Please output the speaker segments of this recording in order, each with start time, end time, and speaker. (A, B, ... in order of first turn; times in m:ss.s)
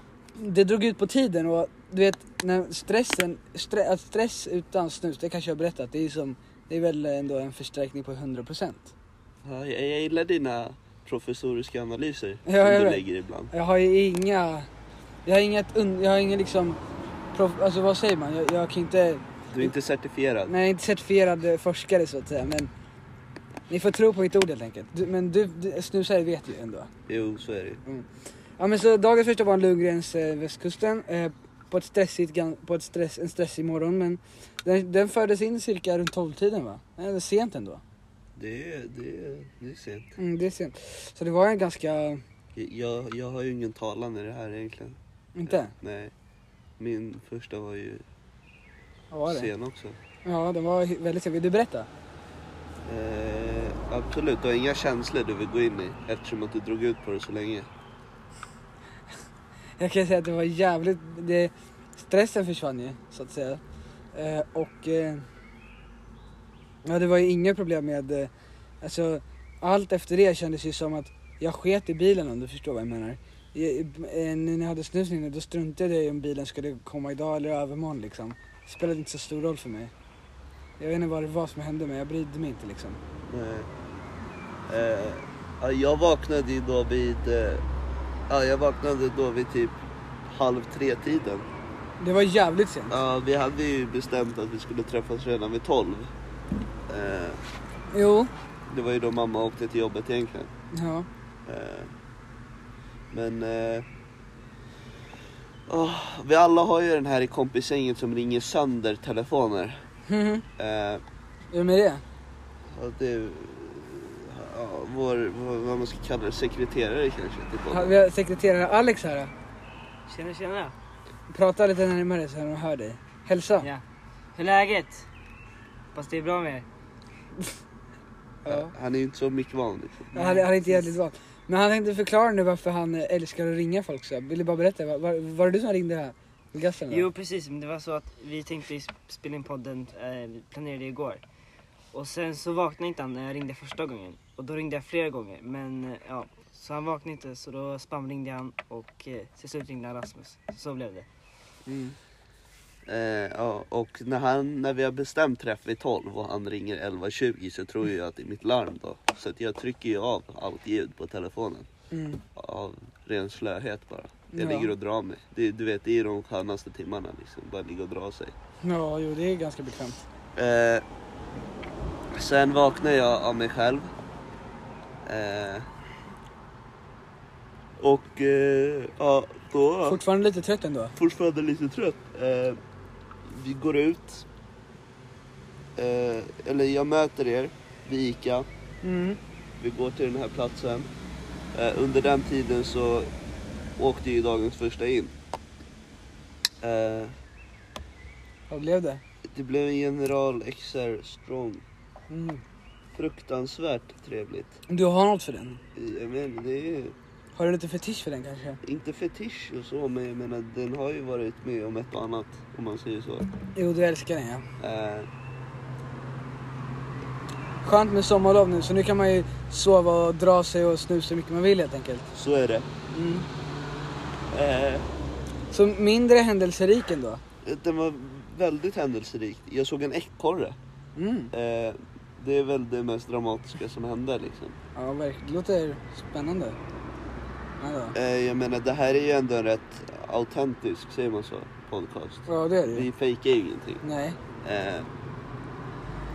0:00.4-0:08.9 A
0:09.4-0:13.5 B
0:12.5-0:14.7 A
0:15.3-0:16.8 A
0:17.3-0:19.7 A
0:19.5-0:20.5 B
0:20.5-0:22.7 A
0:23.7-0:26.9 A
0:27.1-0:27.8 B
0:28.6-0:37.8 A
0:38.4-0:40.1 B
0:40.2-0:42.2 A
0:42.6-0:46.1 B
0:45.4-0:45.7 A
0:46.8-0:48.0 B
0:49.1-0:49.5 A
0:49.3-0:50.0 B
0:50.3-0:51.9 A
0:52.8-0:57.7 B
0:59.8-1:03.6 A
1:04.1-1:05.3 A
1:06.9-1:08.3 A
1:08.8-1:19.9 A
1:20.8-1:23.0 A
1:23.3-1:23.7 B
1:24.7-1:27.6 B
1:28.3-1:31.5 B
1:32.0-1:33.0 A
1:32.9-1:36.1 B
1:36.9-1:37.4 B
1:37.9-1:38.3 A
1:38.7-1:40.5 B
1:40.7-1:41.1 A
1:41.5-1:41.9 B
1:43.1-1:43.9 B
1:45.7-1:49.8 B
1:50.1-1:50.5 A
1:50.6-1:51.0 B
1:51.5-1:52.0 A
1:52.7-1:57.9 B
1:57.7-1:59.3 A
2:00.1-2:00.7 C
2:01.3-2:03.7 A
2:04.4-2:05.1 C
2:05.9-2:06.7 C
2:08.4-2:08.7 A
2:08.5-2:10.2 B
2:10.1-2:17.1 A
2:10.2-2:10.8 C
2:16.9-2:21.2 C
2:21.9-2:31.1 C
2:31.7-2:32.0 A
2:32.9-2:41.7 B
2:41.9-2:42.2 A
2:42.4-2:48.3 B
2:44.3-2:44.7 A
2:48.6-2:50.0 A
2:50.4-2:50.8 B
2:52.1-2:53.9 B
2:55.0-2:55.7 B
2:57.8-3:00.0 B
2:59.9-3:01.0 A
3:01.0-3:02.6 B
3:03.3-3:04.3 B
3:05.8-3:08.5 B
3:08.8-3:09.2 A
3:09.6-3:10.9 B
3:11.5-3:13.1 B
3:13.8-3:15.1 B
3:16.6-3:17.1 B
3:18.5-3:19.0 A
3:19.3-3:21.6 B
3:22.1-3:22.4 A
3:22.9-3:24.6 B
3:24.7-3:25.6 A
3:25.8-3:27.0 B
3:27.4-3:28.6 A
3:28.6-3:33.3 B
3:33.6-3:34.5 A
3:34.6-3:35.1 B
3:37.6-3:42.1 A
3:42.1-3:42.7 B
3:42.9-3:43.3 A
3:44.3-3:44.9 B
3:45.5-3:47.2 A
3:47.4-3:50.6 B
3:51.0-3:51.3 A
3:51.3-3:54.6 B
3:54.8-3:56.6 A
3:57.6-3:58.0 A
3:57.9-4:03.8 B
4:02.3-4:02.9 A
4:03.8-4:04.2 A
4:04.4-4:04.9 B